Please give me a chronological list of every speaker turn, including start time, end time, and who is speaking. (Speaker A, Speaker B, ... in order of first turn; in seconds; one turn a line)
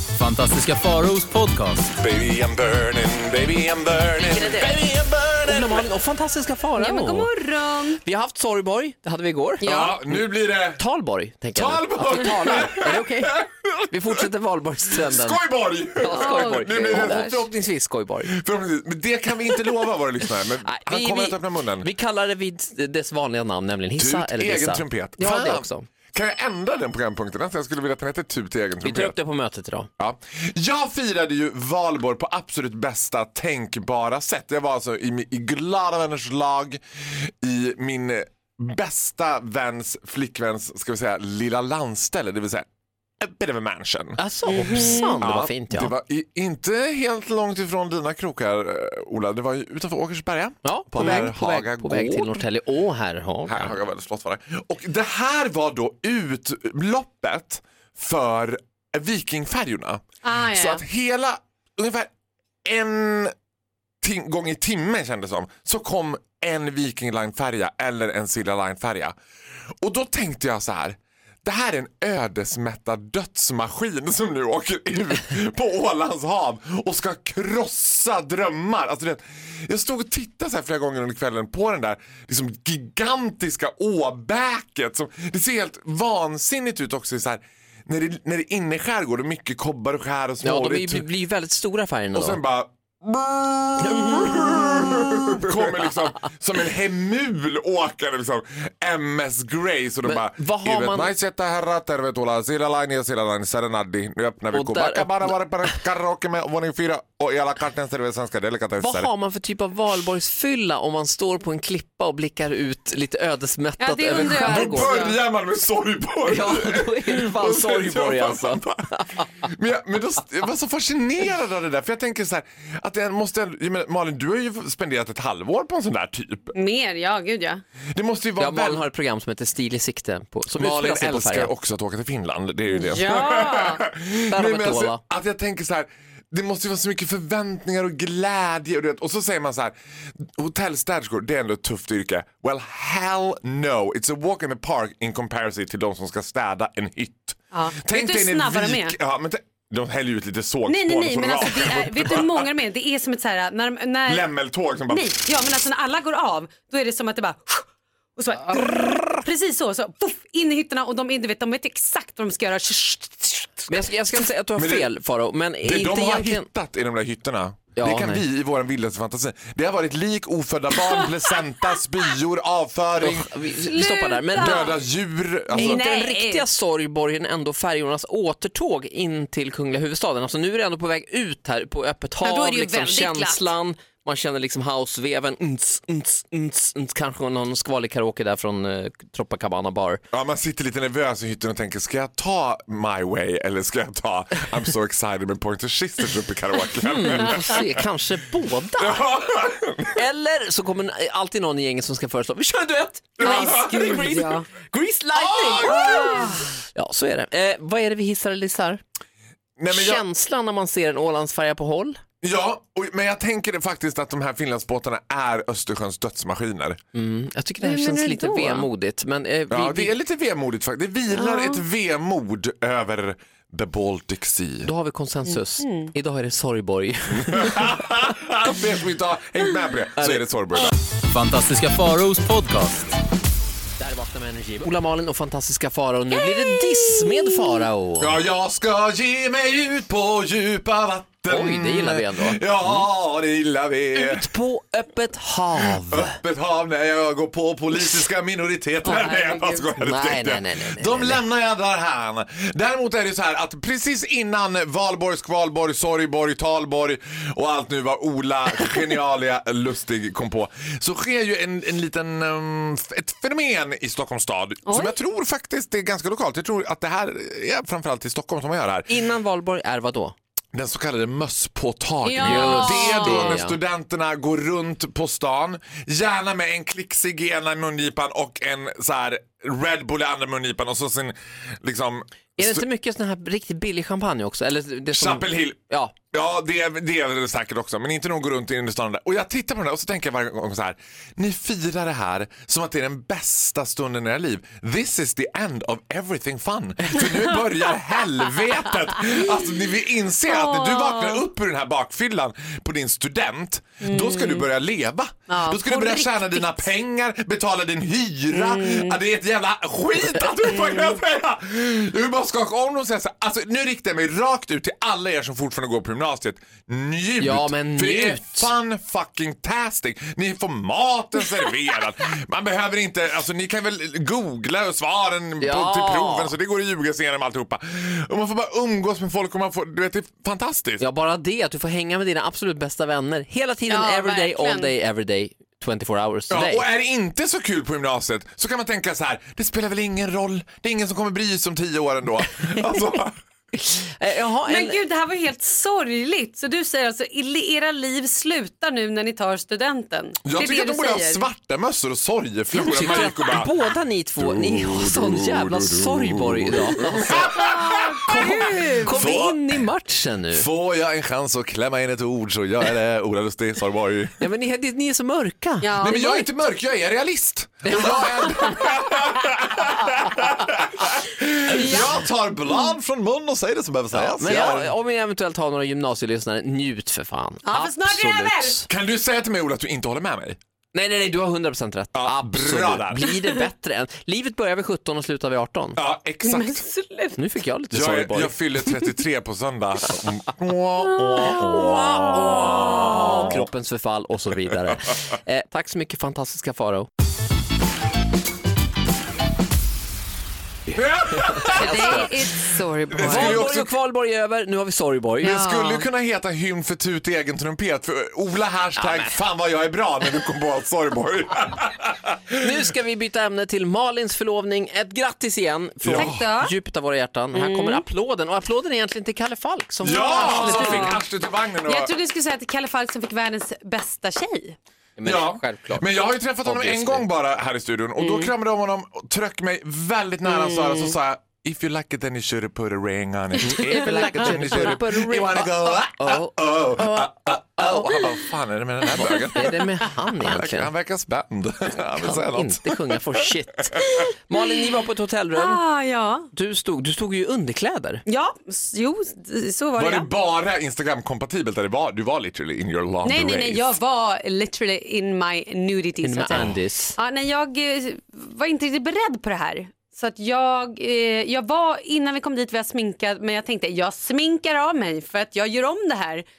Speaker A: 0.1-1.9
Speaker B: 2.0-5.9
Speaker C: 4.2-4.7
Speaker C: 5.5-7.3
Speaker D: 6.8-8.0
Speaker C: 8.0-10.2
Speaker D: 9.6-10.0
Speaker B: 9.6-10.8
Speaker C: 10.8-13.4
Speaker B: 11.5-14.2
Speaker C: 13.9-15.4
Speaker B: 14.9-17.5
Speaker C: 16.0-18.4
Speaker D: 16.1-17.4
Speaker B: 18.2-21.9
Speaker C: 20.6-25.9
Speaker B: 24.0-29.2
Speaker C: 28.8-29.9
Speaker B: 30.0-42.7
Speaker B: 43.2-52.5
Speaker C: 44.2-45.9
Speaker D: 44.5-45.2
Speaker C: 50.6-53.7
Speaker B: 53.5-62.1
Speaker D: 60.2-60.8
Speaker B: 62.6-63.4
Speaker B: 64.0-69.2
Speaker B: 69.8-91.1
Speaker C: 90.4-92.4
Speaker B: 92.1-109.1
Speaker C: 94.1-94.4
Speaker D: 94.3-94.9
Speaker C: 100.0-101.1
Speaker C: 104.5-105.8
Speaker C: 108.8-115.1
Speaker D: 113.8-115.2
Speaker B: 114.1-126.5
Speaker C: 116.3-119.5
Speaker D: 126.5-127.6
Speaker B: 127.9-128.8
Speaker C: 128.4-131.5
Speaker B: 130.5-152.5
Speaker D: 132.7-133.8
Speaker C: 134.3-135.0
Speaker D: 147.5-148.9
Speaker D: 150.7-154.3
Speaker B: 154.1-155.1
Speaker D: 154.9-157.7
Speaker D: 158.2-163.8
Speaker C: 163.7-166.5
Speaker B: 164.6-164.9
Speaker B: 165.6-173.3
Speaker C: 167.8-168.2
Speaker C: 173.0-174.7
Speaker D: 173.7-174.8
Speaker B: 174.4-175.8
Speaker D: 175.5-176.5
Speaker C: 175.6-190.0
Speaker D: 182.2-183.4
Speaker B: 190.1-197.8
Speaker C: 196.8-199.1
Speaker B: 198.8-200.0
Speaker C: 199.9-208.8
Speaker B: 203.2-204.2
Speaker D: 203.2-204.5
Speaker B: 205.2-206.4
Speaker D: 205.6-206.5
Speaker B: 209.6-210.0
Speaker C: 209.7-212.0
Speaker B: 212.2-216.8
Speaker C: 216.9-219.9
Speaker D: 217.6-218.7
Speaker B: 219.5-224.7
Speaker D: 221.1-221.6
Speaker C: 224.6-227.7
Speaker D: 225.6-225.9
Speaker B: 227.2-230.7
Speaker C: 230.0-230.2
Speaker A: 231.1-233.0
Speaker C: 233.8-238.2
Speaker D: 236.1-237.6
Speaker B: 238.0-244.3
Speaker C: 241.3-242.9
Speaker C: 243.9-246.2
Speaker B: 245.6-268.9
Speaker D: 248.8-249.7
Speaker C: 249.8-251.2
Speaker D: 264.7-264.9
Speaker C: 268.9-270.1
Speaker B: 270.5-282.7
Speaker D: 272.0-273.4
Speaker C: 272.2-273.6
Speaker C: 282.4-285.9
Speaker B: 284.9-330.8
Speaker D: 300.3-301.2
Speaker D: 303.8-304.5
Speaker D: 305.3-306.7
Speaker D: 308.3-309.0
Speaker D: 310.5-310.9
Speaker C: 317.2-318.5
Speaker C: 325.4-326.3
Speaker C: 330.8-336.7
Speaker D: 333.7-334.7
Speaker B: 336.3-343.2
Speaker C: 342.5-342.8
Speaker C: 343.5-344.8
Speaker D: 344.5-351.3
Speaker B: 350.2-353.5
Speaker C: 352.5-357.4
Speaker D: 352.9-353.1
Speaker B: 354.2-359.4
Speaker D: 357.3-359.0
Speaker C: 358.1-360.5
Speaker B: 360.3-364.2
Speaker C: 364.2-365.7
Speaker D: 365.6-366.3
Speaker B: 365.8-374.7
Speaker C: 367.7-367.9
Speaker D: 367.7-368.8
Speaker D: 371.4-372.0
Speaker C: 373.9-378.7
Speaker D: 377.5-378.6
Speaker B: 378.7-380.4
Speaker C: 380.7-385.8
Speaker B: 381.9-383.1
Speaker B: 385.8-386.7
Speaker D: 386.2-387.2
Speaker C: 387.2-388.4
Speaker B: 387.7-393.5
Speaker D: 391.0-393.3
Speaker C: 391.4-396.9
Speaker B: 400.7-402.3
Speaker C: 401.1-402.1
Speaker D: 401.5-403.5
Speaker B: 402.9-403.7
Speaker C: 403.0-405.4
Speaker D: 405.2-405.9
Speaker B: 405.2-412.6
Speaker C: 408.8-409.2
Speaker C: 412.4-421.0
Speaker B: 415.8-416.3
Speaker D: 415.9-416.5
Speaker D: 417.3-417.8
Speaker B: 419.8-421.9
Speaker D: 419.9-421.0
Speaker D: 421.6-424.6
Speaker C: 425.0-425.9
Speaker B: 425.0-439.6
Speaker C: 426.4-427.1
Speaker D: 428.0-428.3
Speaker D: 430.2-430.9
Speaker C: 433.4-436.3
Speaker D: 433.6-434.7
Speaker D: 436.8-438.1
Speaker C: 439.1-440.7
Speaker B: 440.2-443.2
Speaker C: 442.0-445.6
Speaker B: 443.8-444.1
Speaker D: 443.9-444.6
Speaker D: 445.4-446.3
Speaker C: 446.3-448.0
Speaker D: 448.1-450.1
Speaker B: 449.8-453.8
Speaker D: 453.0-466.3
Speaker C: 456.0-457.0